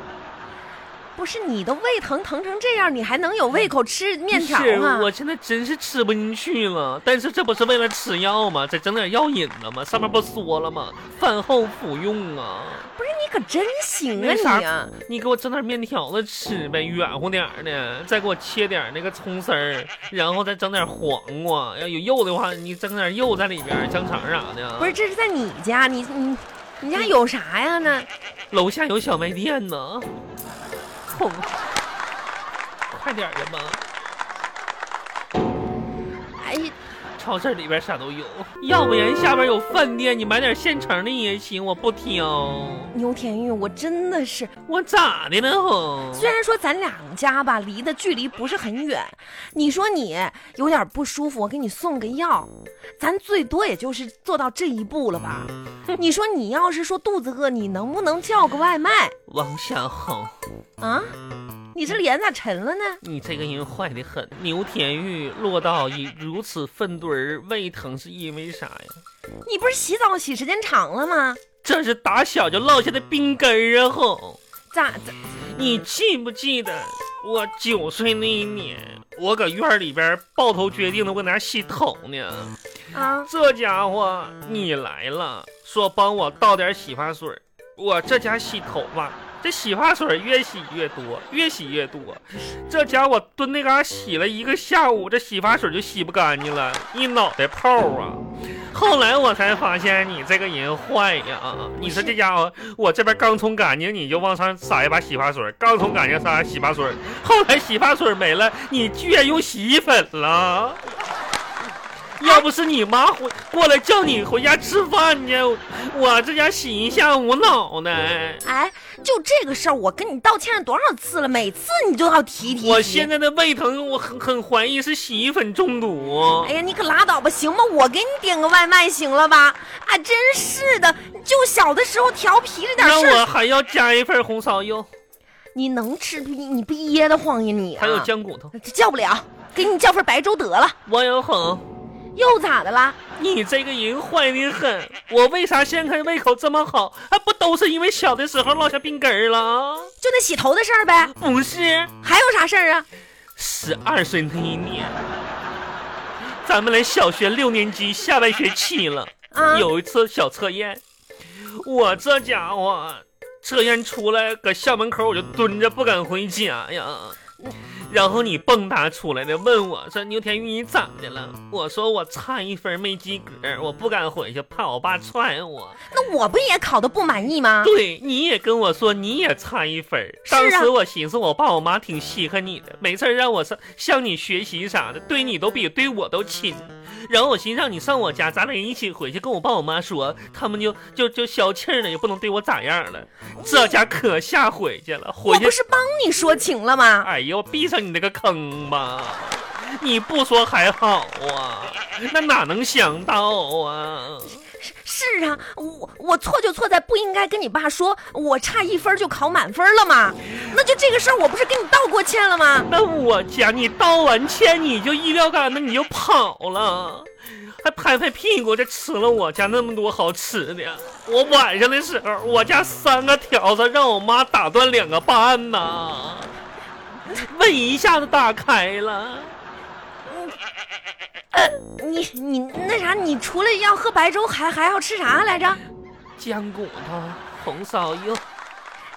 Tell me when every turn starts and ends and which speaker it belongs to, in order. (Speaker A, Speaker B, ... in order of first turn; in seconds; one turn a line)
Speaker A: 1.1-5.1
Speaker B: 4.3-12.9
Speaker A: 12.9-14.9
Speaker B: 14.1-25.0
Speaker A: 24.8-28.1
Speaker B: 28.5-30.1
Speaker B: 31.1-31.5
Speaker B: 32.9-33.8
Speaker A: 36.4-36.7
Speaker B: 37.2-42.9
Speaker A: 42.9-44.5
Speaker B: 44.7-46.3
Speaker A: 46.1-59.1
Speaker B: 59.3-60.4
Speaker A: 60.8-61.1
Speaker A: 61.7-63.0
Speaker B: 63.0-69.0
Speaker A: 69.4-71.4
Speaker B: 71.6-74.4
Speaker A: 74.7-75.2
Speaker B: 75.3-82.5
Speaker A: 82.9-83.3
Speaker B: 83.2-110.8
Speaker A: 101.8-102.2
Speaker B: 112.2-118.4
Speaker A: 118.4-123.1
Speaker B: 122.6-126.5
Speaker A: 126.4-133.3
Speaker B: 132.8-134.9
Speaker A: 135.5-140.8
Speaker B: 137.8-138.5
Speaker B: 140.8-141.6
Speaker A: 142.1-143.0
Speaker B: 143.2-149.9
Speaker A: 150.0-151.1
Speaker B: 151.1-151.9
Speaker A: 152.0-152.9
Speaker B: 153.4-155.0
Speaker B: 156.4-160.8
Speaker A: 159.3-159.7
Speaker B: 161.4-175.8
Speaker A: 175.9-177.7
Speaker B: 177.6-195.6
Speaker A: 180.2-180.7
Speaker A: 195.2-197.1
Speaker B: 197.0-204.4
Speaker A: 204.4-212.7
Speaker B: 212.7-226.4
Speaker B: 227.1-229.3
Speaker A: 231.3-235.6
Speaker B: 236.2-238.2